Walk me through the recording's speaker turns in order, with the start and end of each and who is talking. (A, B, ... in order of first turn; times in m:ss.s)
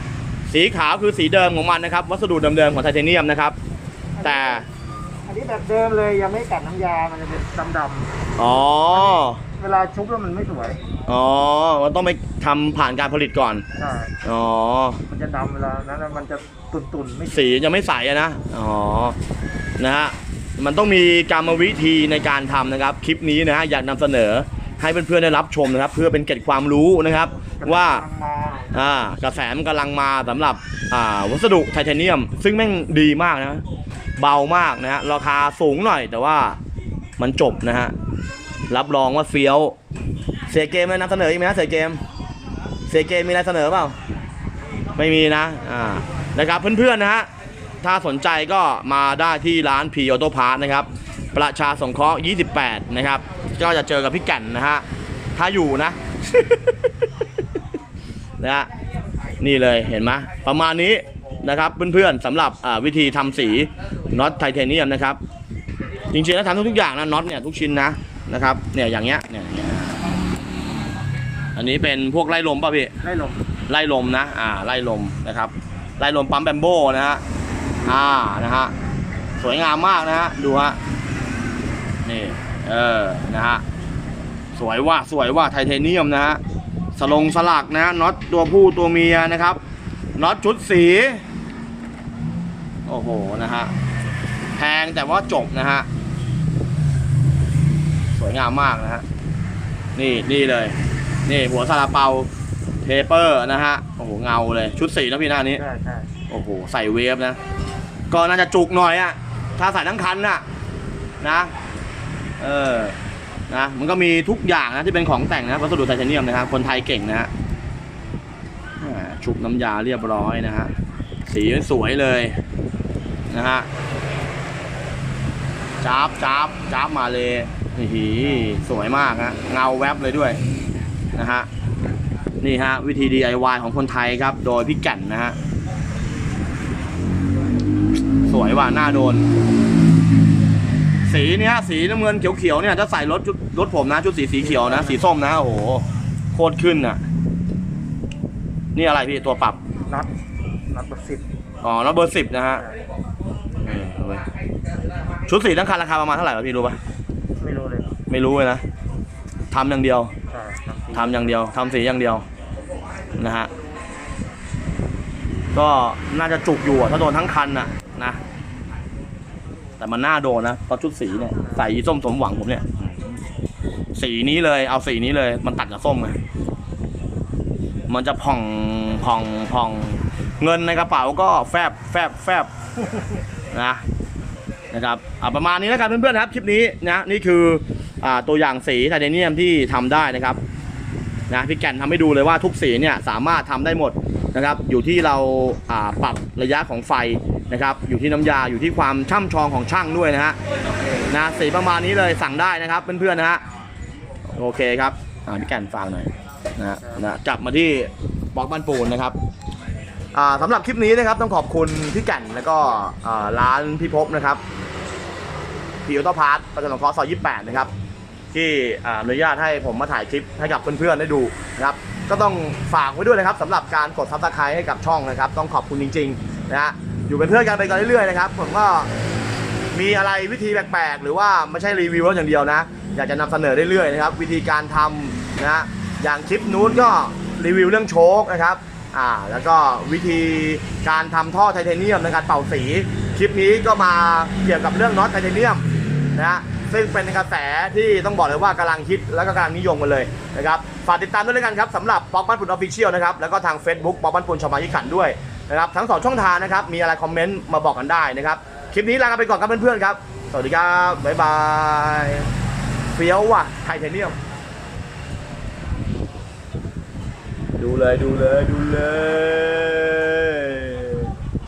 0:00.5-0:03.6 A
0:04.2-0:04.6 B
0:04.2-0:04.7 A
0:05.3-0:08.1 B
0:08.4-0:09.4 A
0:09.1-0:10.8 B
0:11.1-0:13.6 A
0:13.8-0:14.1 B
0:14.2-0:15.0 A
0:15.1-0:17.4 B
0:17.3-0:19.2 A
0:19.8-0:28.0 A
0:27.6-0:28.8 B
0:28.7-0:33.6 A
0:34.2-0:36.6 A
0:37.2-0:37.9 A
0:38.7-0:39.8 A
0:40.5-0:42.0 A
0:42.9-0:44.0 A
0:45.0-0:47.3 A
0:47.8-0:54.8 A
0:55.4-0:56.6 A
0:58.4-0:58.7 A
0:59.4-1:05.2 A
1:06.1-1:10.0 A
1:11.6-1:12.9 A
1:13.0-1:13.4 B
1:13.7-1:17.2 A
1:17.9-1:18.7 A
1:19.4-1:20.8 A
1:22.0-1:23.6 A
1:24.6-1:26.4 A
1:27.0-1:29.6 A
1:30.2-1:31.2 A
1:32.9-1:33.7 A
1:34.6-1:35.9 A
1:38.1-1:39.0 A
1:40.0-1:40.8 A
1:41.3-1:42.3 A
1:42.8-1:45.6 A
1:45.6-1:46.1 B
1:46.3-1:47.4 A
1:48.1-1:50.4 A
1:51.2-1:51.5 A
1:52.4-1:53.0 A
1:53.5-1:57.3 A
1:58.8-2:00.7 A
2:01.3-2:02.4 A
2:03.3-2:03.7 A
2:05.8-2:10.4 A
2:11.2-2:11.5 A
2:12.4-2:15.4 A
2:18.3-2:19.3 A
2:21.1-2:27.0 A
2:24.4-2:25.0 B
2:28.8-2:29.6 A
2:30.7-2:31.2 B
2:31.6-2:32.6 A
2:33.6-2:34.2 A
2:35.3-2:36.8 A
2:37.4-2:37.9 B
2:38.1-2:38.6 A
2:39.5-2:40.1 A
2:40.3-2:41.3 B
2:40.9-2:42.2 A
2:43.2-2:43.5 A
2:45.5-2:48.2 A
2:49.8-2:53.2 A
2:54.0-2:56.2 A
2:57.9-3:02.5 A
3:03.5-3:03.8 A
3:04.7-3:10.4 A
3:11.3-3:20.4 A
3:21.1-3:23.4 A
3:24.4-3:29.2 A
3:30.1-3:34.4 A
3:35.9-3:37.7 A
3:38.3-3:48.9 A
3:49.7-4:05.6 A
4:06.2-4:22.3 A
4:23.0-4:24.2 A
4:27.6-4:31.1 A